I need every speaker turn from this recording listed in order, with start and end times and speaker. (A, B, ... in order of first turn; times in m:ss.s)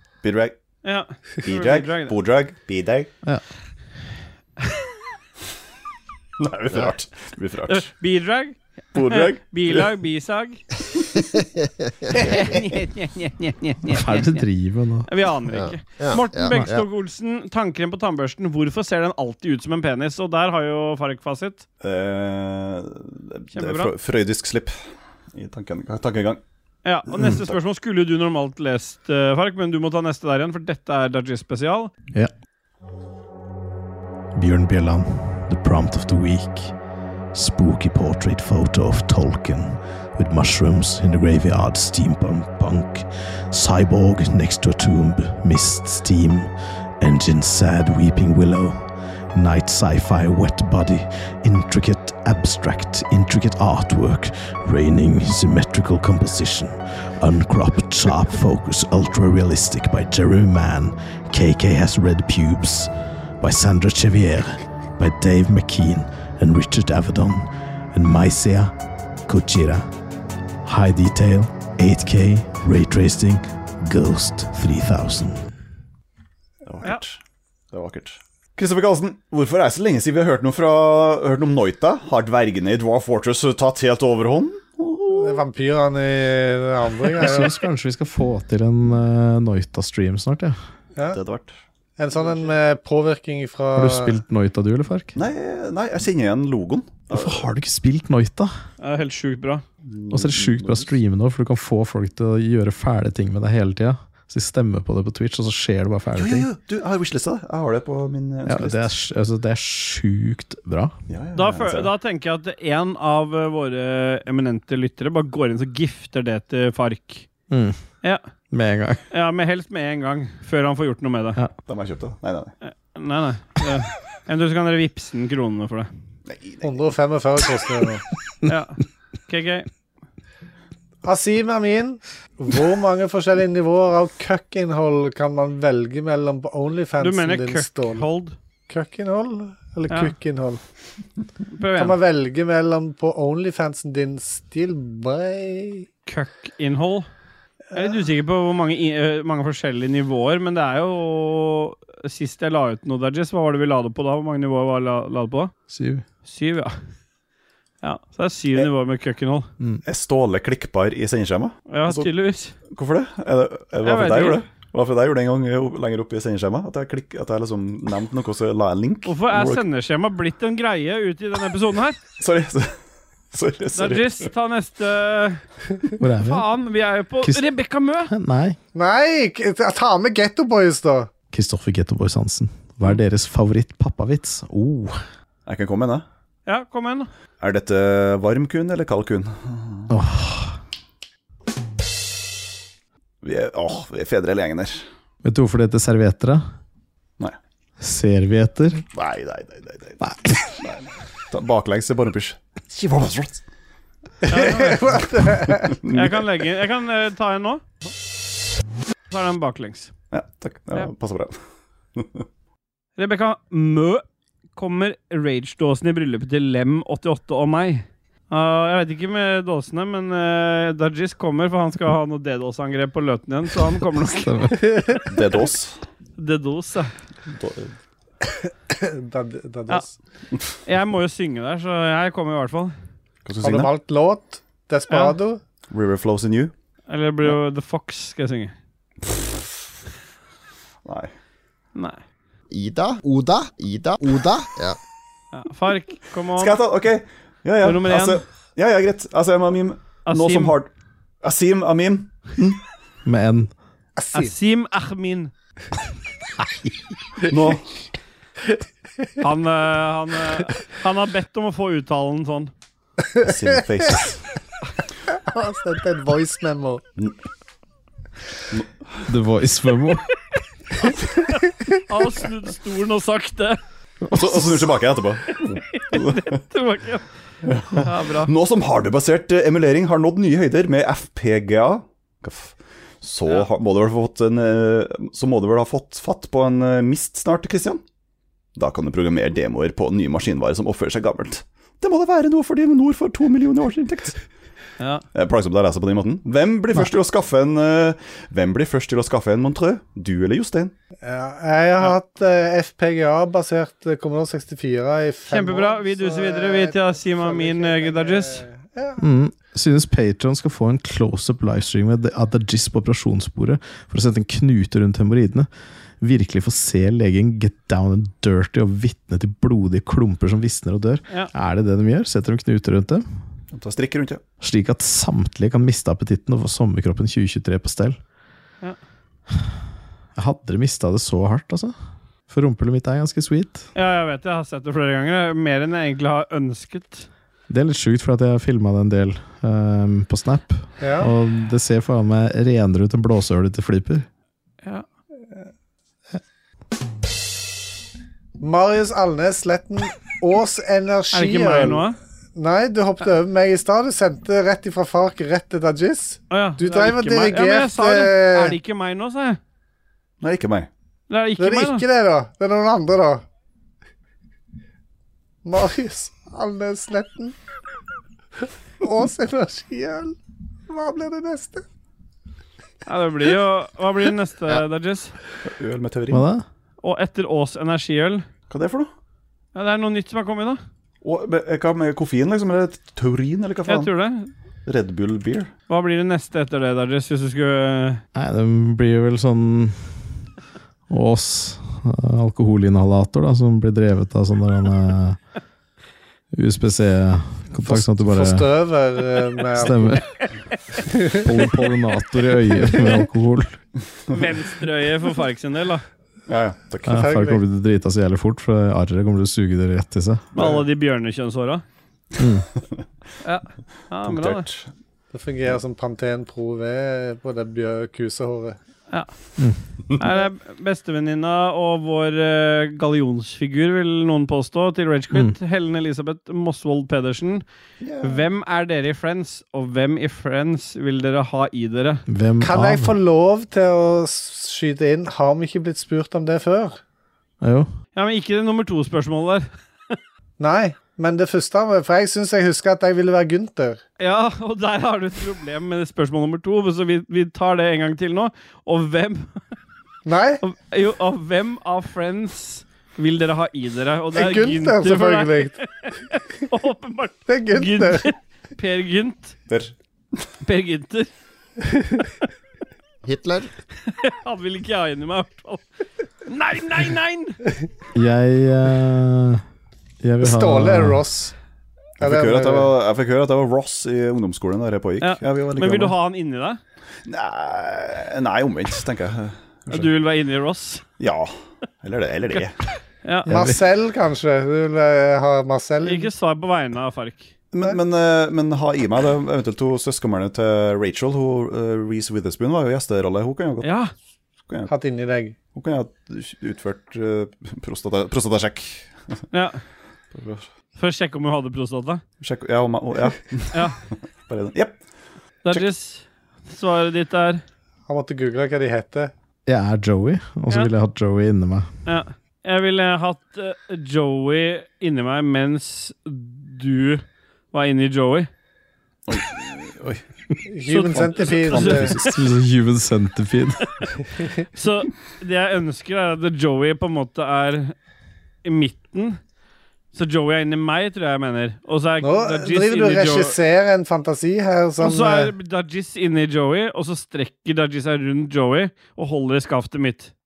0:00.2-0:00.5 A
0:00.8-0:02.1 B
0:01.4-0:03.1 A
0:06.4-0:07.9 A
0:07.7-0:10.6 B
0:08.9-0:09.9 A
0:12.1-0:14.4 B
0:13.9-0:15.1 C
0:15.1-0:21.6 B
0:15.5-0:16.8 D
0:21.8-0:24.8 A
0:23.5-0:23.9 B
0:25.3-0:26.4 A
0:26.8-0:31.9 B
0:27.1-0:27.6 A
0:34.3-0:36.7 C
0:37.3-1:08.7 C
1:09.3-1:09.9 C
1:10.6-1:15.4 C
1:16.6-1:17.2 A
1:17.7-1:25.4 A
1:25.1-1:27.6 E
1:27.2-1:30.6 C
1:31.1-1:31.6 A
1:32.0-1:34.2 E
1:33.7-1:35.2 C
1:35.1-1:37.4 A
1:37.1-1:38.5 C
1:38.8-1:39.6 B
1:39.8-1:40.9 A
1:40.1-1:46.5 C
1:46.1-1:48.9 A
1:48.4-1:50.9 C
1:51.1-1:51.9 A
1:51.3-1:57.3 B
1:57.5-1:57.8 C
1:58.5-1:59.0 C
1:59.1-2:01.4 B
2:01.7-2:02.5 A
2:02.6-2:05.9 B
2:06.2-2:06.8 A
2:06.6-2:08.0 E
2:08.4-2:09.7 B
2:11.0-2:18.1 E
2:17.0-2:18.4 B
2:18.7-2:20.6 E
2:21.5-2:22.0 B
2:21.8-2:25.9 E
2:26.0-2:27.1 B
2:27.7-2:28.0 E
2:27.7-2:35.5 B
2:35.7-2:36.0 C
2:36.2-2:36.7 B
2:37.8-2:39.5 B
2:39.8-2:42.1 A
2:41.7-2:42.5 B
2:42.7-2:49.6 A
2:43.8-2:44.4 B
2:49.0-2:52.0 B
2:52.2-2:52.7 A
2:53.3-2:54.3 A
2:53.7-2:55.4 B
2:56.0-2:56.5 C
2:56.2-2:58.1 B
2:57.2-2:57.5 C
2:58.0-2:58.6 C
2:58.7-3:01.1 E
3:01.3-3:05.0 C
3:05.4-3:06.0 A
3:06.5-3:07.1 B
3:07.4-3:09.9 A
3:09.9-3:10.6 C
3:13.2-3:14.8 A
3:15.2-3:16.4 C
3:17.8-3:18.8 C
3:18.9-3:20.0 A
3:20.0-3:20.4 C
3:20.6-3:23.4 A
3:24.2-3:25.7 E
3:24.3-3:24.8 B
3:25.2-3:26.2 A
3:25.9-3:27.6 B
3:29.1-3:29.9 B
3:30.1-3:31.4 A
3:32.0-3:32.2 A
3:33.0-3:34.0 B
3:34.5-3:45.0 B
3:44.1-3:44.8 C
3:45.1-3:45.8 A
3:46.2-3:46.9 B
3:47.3-3:47.7 A
3:48.2-3:49.9 E
3:50.6-3:52.7 B
3:53.2-3:53.7 A
3:53.4-3:55.4 E
3:55.7-3:56.5 A
3:56.9-3:58.5 B
4:00.8-4:01.1 A
4:01.7-4:02.0 B
4:02.5-4:04.8 D
4:05.3-4:06.6 B
4:06.4-4:10.7 A
4:07.6-4:08.2 B
4:10.1-4:10.5 B
4:11.2-4:12.6 A
4:13.0-4:13.5 C
4:14.0-4:14.3 E
4:14.1-4:15.3 B
4:17.3-4:17.7 A
4:19.2-4:22.5 B
4:23.2-4:24.2 A
4:25.1-4:26.8 E
4:29.0-4:30.0 C
4:31.9-4:33.6 B
4:34.0-4:34.6 C
4:34.1-4:36.4 A
4:35.5-4:37.0 B
4:37.4-4:47.8 A
4:37.7-4:38.3 B
4:48.6-4:54.2 A
4:55.1-5:00.7 A
5:01.0-5:09.0 E
5:05.3-5:08.4 B
5:09.0-5:15.5 C
5:16.0-5:23.0 C
5:23.5-5:24.2 A
5:24.4-5:28.0 C
5:30.2-5:31.7 C
5:32.3-5:33.6 C
5:33.7-5:37.1 B
5:37.5-5:44.0 C
5:40.8-5:41.1 E
5:48.4-5:58.6 E
5:51.1-5:52.0 B
5:56.3-5:59.4 B
6:00.2-6:00.7 A
6:01.1-6:01.8 B
6:01.4-6:03.2 E
6:05.4-6:07.4 E
6:08.8-6:10.2 E
6:10.7-6:11.6 E
6:12.8-6:15.1 B
6:15.4-6:16.2 A
6:16.1-6:16.4 C
6:16.8-6:18.2 B
6:18.5-6:18.9 A
6:19.5-6:20.6 B
6:21.0-6:23.9 A
6:23.7-6:24.3 B
6:24.6-6:25.5 A
6:25.7-6:28.0 B
6:28.1-6:30.0 C
6:30.9-6:35.2 C
6:36.3-6:38.5 C
6:37.6-6:40.0 E
6:39.5-6:40.2 C
6:40.9-6:41.2 E
6:41.0-6:43.6 C
6:44.1-6:45.8 B
6:46.3-6:47.0 A
6:46.8-6:50.2 C
6:46.9-6:47.4 E
6:50.3-6:50.6 A
6:50.4-6:51.6 B
6:52.2-6:52.5 C
6:53.2-6:54.4 B
6:54.0-6:54.7 A
6:55.1-6:58.6 E
6:59.9-7:07.4 B
7:07.8-7:08.2 A
7:08.0-7:12.0 B
7:12.1-7:13.0 C
7:12.4-7:16.8 E
7:17.4-7:17.7 C
7:17.9-7:19.9 B
7:20.4-7:23.8 E
7:24.0-7:29.4 B
7:30.0-7:30.4 E
7:30.4-7:39.3 B
7:34.1-7:35.6 E
7:37.3-7:38.0 E
7:39.5-7:40.2 A
7:40.4-7:41.1 B
7:43.0-7:43.5 D
7:43.8-7:45.6 B
7:46.2-7:47.4 B
7:47.9-7:49.4 C
7:50.0-7:51.1 C
7:50.2-7:51.3 E
7:52.0-7:55.9 A
7:52.0-7:52.7 E
7:55.0-7:56.6 B
7:57.0-7:59.9 A
7:59.7-8:00.8 B
8:01.0-8:02.6 A
8:03.0-8:03.3 B
8:03.3-8:03.6 C
8:03.3-8:06.1 E
8:05.8-8:07.3 B
8:07.5-8:13.7 A
8:13.6-8:13.9 B
8:14.7-8:15.3 E
8:15.5-8:19.2 A
8:19.3-8:19.6 B
8:20.1-8:20.5 A
8:20.8-8:22.0 B
8:22.2-8:23.6 A
8:23.5-8:23.8 B
8:24.3-8:24.8 A
8:25.4-8:27.4 B
8:27.9-8:29.1 E
8:29.4-8:31.7 C
8:31.8-8:38.3 B
8:39.1-8:40.0 A
8:40.5-8:41.9 E
8:40.7-8:41.9 B
8:40.9-8:42.1 A
8:42.0-8:43.6 C
8:44.5-8:47.7 B
8:48.4-8:49.2 B
8:49.9-8:53.3 B
8:52.0-8:55.3 E
8:54.8-9:00.1 B